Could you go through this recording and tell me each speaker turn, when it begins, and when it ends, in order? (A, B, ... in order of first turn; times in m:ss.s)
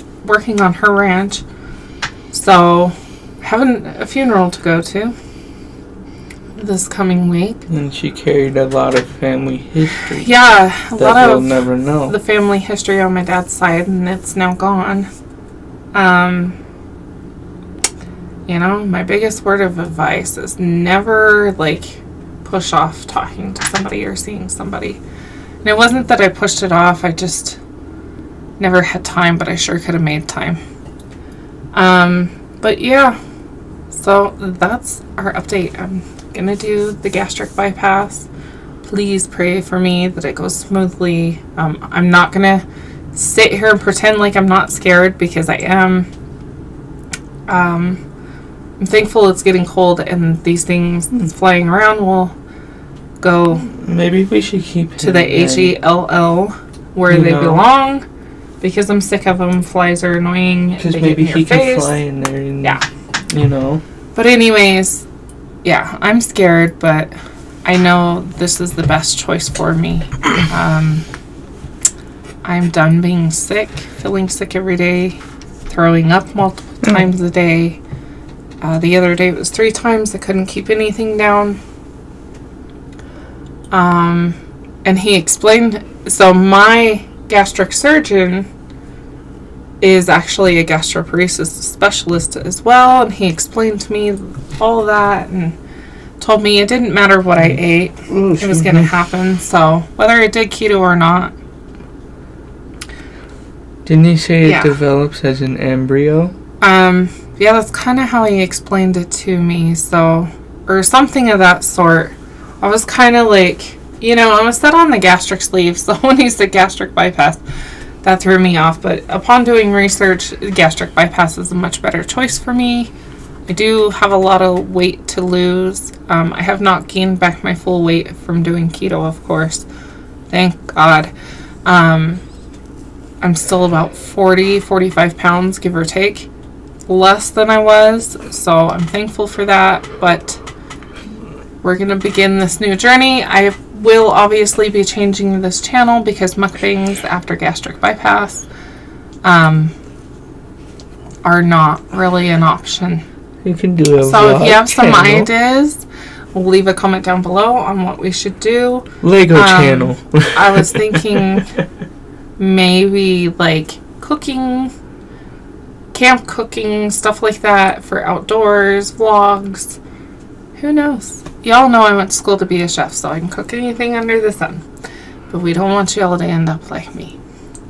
0:00.2-0:01.4 A
0:02.3-0:05.1 A
0:06.6-0:07.6 A
0:07.7-0:10.3 B
0:10.2-0:11.5 A
0:10.9-0:12.1 B
0:12.1-0:15.1 A
0:15.9-0:16.6 A
0:18.5-0:25.0 A
0:25.6-0:27.6 A
0:28.6-0:30.6 A
0:31.7-0:33.2 A
0:33.9-0:38.3 A
0:38.8-0:46.1 A
0:47.5-0:48.0 A
0:48.8-0:52.3 A
0:53.2-0:53.7 A
0:53.7-0:55.8 B
0:55.0-0:58.0 A
0:57.1-0:57.7 B
0:58.6-1:02.0 A
1:00.8-1:02.8 B
1:03.3-1:03.8 B
1:04.1-1:05.0 A
1:05.6-1:07.1 A
1:07.6-1:11.0 A
1:12.4-1:17.8 A
1:18.6-1:21.6 A
1:23.7-1:28.5 A
1:29.8-1:35.6 A
1:36.2-1:41.3 A
1:38.1-1:38.9 B
1:43.8-1:46.3 B
1:44.4-1:44.8 A
1:46.6-1:57.4 A
1:58.0-2:02.9 A
2:03.5-2:09.6 A
2:10.3-2:11.1 A
2:11.6-2:12.2 A
2:13.2-2:16.3 A
2:16.9-2:20.4 A
2:21.6-2:28.4 A
2:29.2-2:29.7 A
2:31.2-2:33.0 A
2:33.4-2:35.3 B
2:34.0-2:41.5 A
2:39.0-2:41.4 B
2:42.4-2:44.7 A
2:45.9-2:49.8 A
2:50.6-2:54.6 A
2:55.3-2:57.1 A